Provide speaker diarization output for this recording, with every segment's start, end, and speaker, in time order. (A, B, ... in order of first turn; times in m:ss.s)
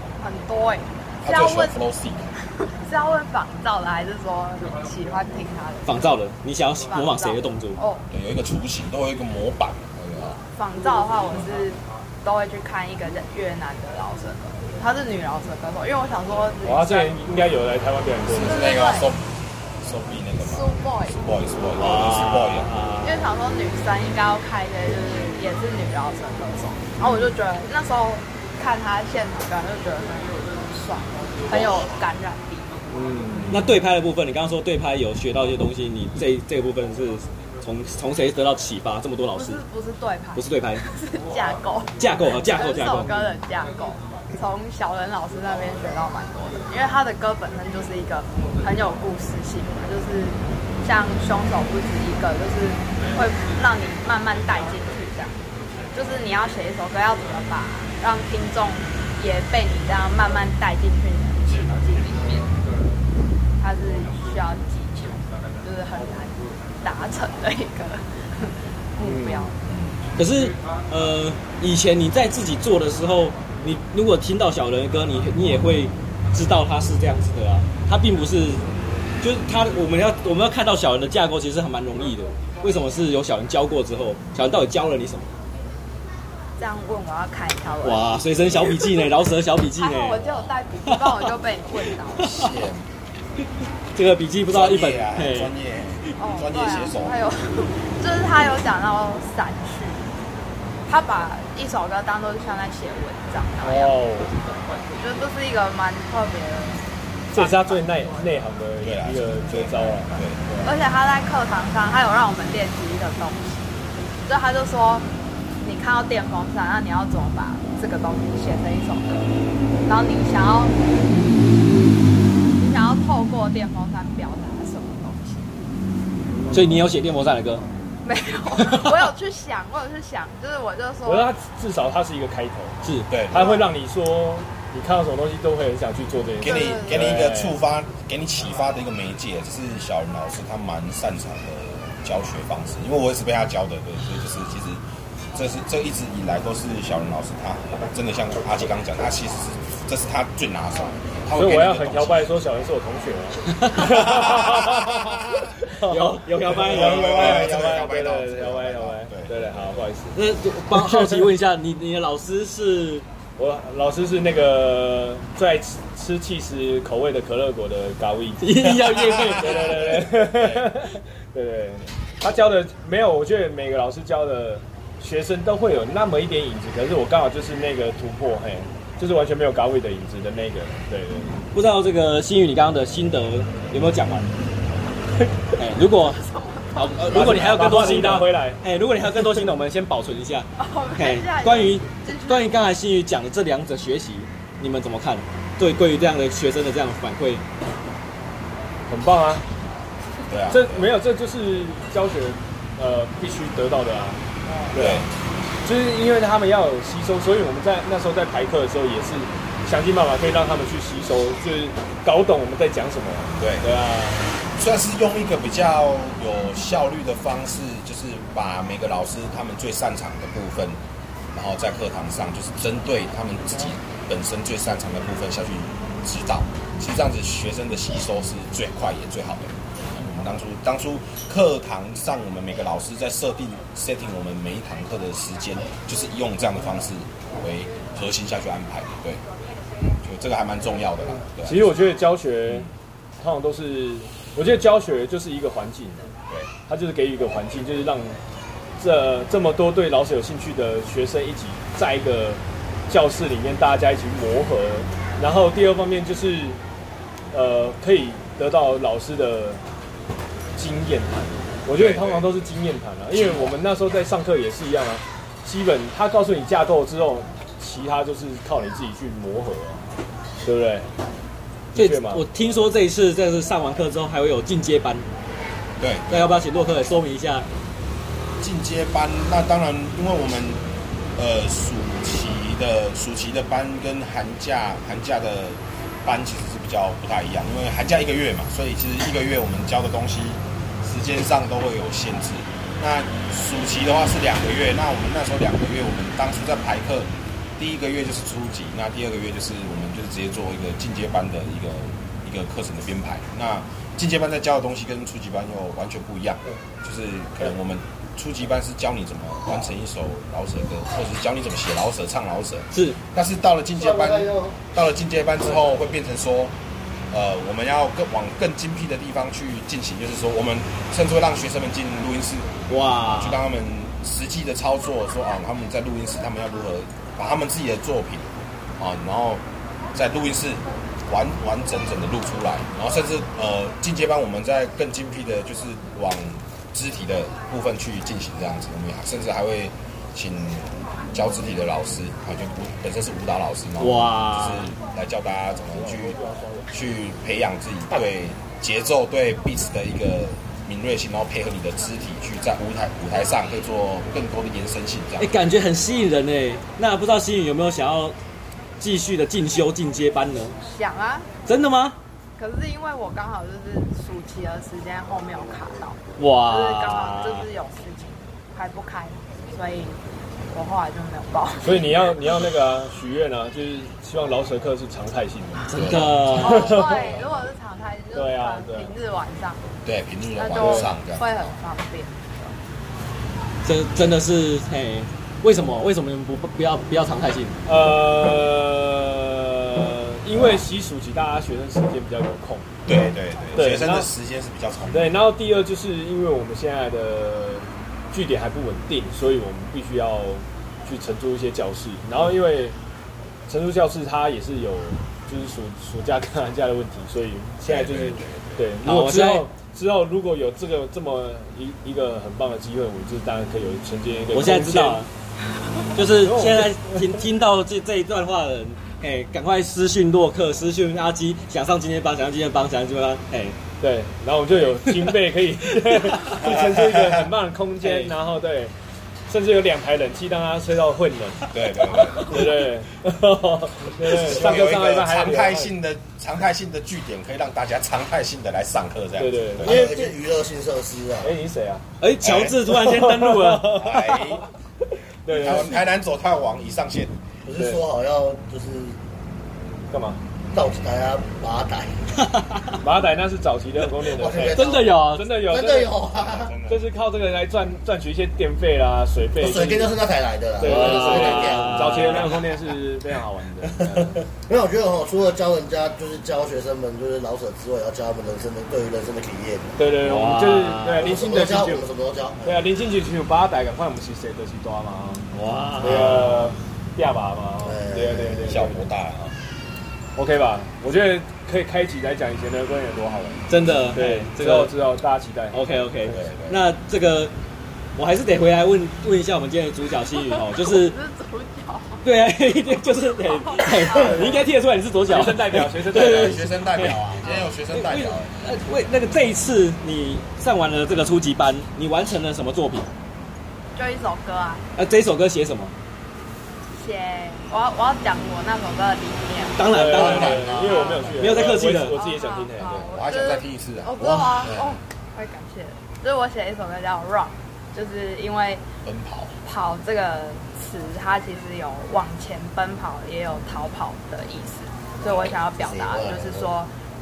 0:00.2-0:01.8 A
0:01.2-0:02.3 B
0:02.6-0:06.1 A
0:05.8-0:07.8 C
0:06.8-0:08.0 A
0:08.1-0:10.4 B
0:10.5-0:17.3 A
0:16.6-0:18.6 D
0:18.3-0:22.7 B
0:18.4-0:19.1 A
0:20.4-0:21.2 A
0:21.8-0:23.2 C
0:23.0-0:32.8 A
0:32.9-0:33.8 D
0:33.5-0:39.6 C
0:39.3-0:55.4 A
0:40.3-0:40.8 C
0:42.0-0:43.1 C
0:55.9-1:02.5 A
1:03.6-1:09.6 A
1:09.0-1:09.5 D
1:09.6-1:10.0 B
1:10.2-1:18.6 C
1:19.2-1:25.3 C
1:26.6-1:28.9 A
1:27.8-1:30.2 C
1:29.8-1:32.5 A
1:30.2-1:30.5 B
1:30.8-1:31.2 C
1:32.2-1:32.5 C
1:32.2-1:32.8 B
1:33.9-1:35.5 C
1:34.5-1:37.2 B
1:36.2-1:40.1 A
1:40.9-1:44.0 A
1:43.6-1:44.4 D
1:44.9-1:47.8 A
1:47.3-1:50.7 D
1:48.8-1:50.4 B
1:50.6-1:55.1 A
1:55.6-1:59.3 A
1:59.8-2:01.2 A
2:02.5-2:05.5 A
2:06.5-2:07.6 C
2:08.0-2:11.3 A
2:08.6-2:09.0 C
2:11.0-2:17.6 D
2:12.8-2:13.1 C
2:13.1-2:13.6 B
2:13.3-2:13.6 A
2:16.4-2:24.8 B
2:16.4-2:17.1 A
2:25.3-2:32.4 B
2:31.3-2:40.2 D
2:33.6-2:33.8 C
2:33.8-2:35.6 B
2:35.8-2:37.5 C
2:36.5-2:39.8 B
2:40.1-2:43.0 C
2:40.7-2:41.3 D
2:43.4-3:01.4 D
2:48.4-2:49.7 C
2:48.9-2:50.7 B
3:01.5-3:04.3 C
3:05.5-3:06.2 C
3:05.9-3:07.2 A
3:06.7-3:17.4 C
3:07.1-3:08.6 D
3:10.6-3:12.6 A
3:18.9-3:19.4 D
3:20.3-3:20.9 B
3:20.5-3:24.2 D
3:24.7-3:25.1 D
3:24.7-3:25.1 B
3:25.6-3:34.4 D
3:33.4-3:33.7 B
3:34.5-3:40.8 B
3:41.3-3:59.2 B
4:00.0-4:01.7 B
4:01.4-4:06.1 D
4:06.7-4:08.2 D
4:08.8-4:16.6 D
4:17.3-4:19.6 D
4:20.6-4:29.9 D
4:21.7-4:22.3 B
4:23.1-4:23.5 B
4:30.4-4:30.9 D
4:31.7-4:32.2 D
4:31.7-4:35.1 C
4:35.8-4:36.4 B
4:36.1-4:37.5 C
4:38.4-4:40.6 B
4:41.2-5:16.6 B
5:12.7-5:13.0 C
5:13.7-5:14.6 E
5:17.1-5:22.5 B
5:22.7-5:23.4 C
5:23.1-5:46.2 B
5:43.8-5:44.7 C
5:46.7-5:55.3 B
5:55.2-5:58.2 C
5:58.8-6:00.6 C
6:00.6-6:01.3 A
6:01.4-6:02.0 C
6:02.4-6:10.0 A
6:06.2-6:07.5 C
6:10.5-6:11.9 A
6:11.6-6:15.7 D
6:15.7-6:16.8 C
6:15.7-6:16.6 B
6:16.3-6:17.0 D
6:16.4-6:19.7 A
6:18.1-6:18.9 D
6:19.8-6:21.4 B
6:20.3-6:22.6 A
6:20.6-6:20.9 D
6:23.6-6:27.6 C
6:27.6-6:32.7 D
6:32.8-6:35.3 B
6:33.5-6:34.1 D
6:34.8-6:42.8 D
6:43.5-6:55.0 D
6:47.6-6:48.6 B
6:48.8-6:49.5 C
6:54.3-6:55.1 C
6:55.9-7:03.6 C
6:56.0-6:57.2 D
7:03.8-7:08.7 D
7:06.2-7:07.3 B
7:07.8-7:08.1 C
7:09.3-7:11.5 D
7:11.5-7:12.5 B
7:12.2-7:15.7 D
7:14.0-7:19.9 B
7:19.2-7:20.0 D
7:19.6-7:21.3 E
7:21.2-7:21.8 D
7:22.0-7:23.9 C
7:22.2-7:22.6 B
7:22.7-7:24.4 D
7:23.7-7:24.5 B
7:25.2-7:25.8 D
7:25.3-7:27.2 B
7:27.4-7:29.0 E
7:27.5-7:27.8 D
7:29.9-7:30.2 D
7:30.5-7:32.0 E
7:32.1-7:32.8 C
7:32.8-7:36.0 D
7:34.1-7:36.5 E
7:34.5-7:35.3 C
7:36.1-7:36.8 B
7:36.7-7:40.0 D
7:39.4-7:42.4 E
7:40.6-7:44.2 D
7:40.6-7:42.4 C
7:43.8-7:49.8 E
7:49.8-7:51.9 D
7:50.0-7:51.1 C
7:51.0-7:52.6 E
7:52.4-7:58.9 D
7:55.3-7:56.3 C
7:55.8-7:56.4 E
7:57.6-7:58.7 E
7:58.5-7:59.3 B
8:00.2-8:06.2 D
8:03.5-8:04.7 C
8:05.5-8:07.3 C
8:06.0-8:06.6 B
8:08.0-8:11.0 C
8:10.3-8:12.0 A
8:12.0-8:17.0 C
8:12.9-8:14.5 A
8:13.9-8:14.4 D
8:15.1-8:16.9 D
8:15.9-8:18.3 B
8:17.2-8:17.5 A
8:17.7-8:22.9 C
8:23.7-8:24.6 A
8:24.8-8:25.7 C
8:26.7-8:29.7 A
8:29.6-8:30.6 C
8:29.6-8:32.9 D
8:29.9-8:31.2 B
8:30.5-8:38.6 A
8:31.2-8:32.0 C
8:32.6-8:34.8 B
8:38.8-8:39.3 B
8:39.4-8:46.7 A
8:45.0-8:46.5 E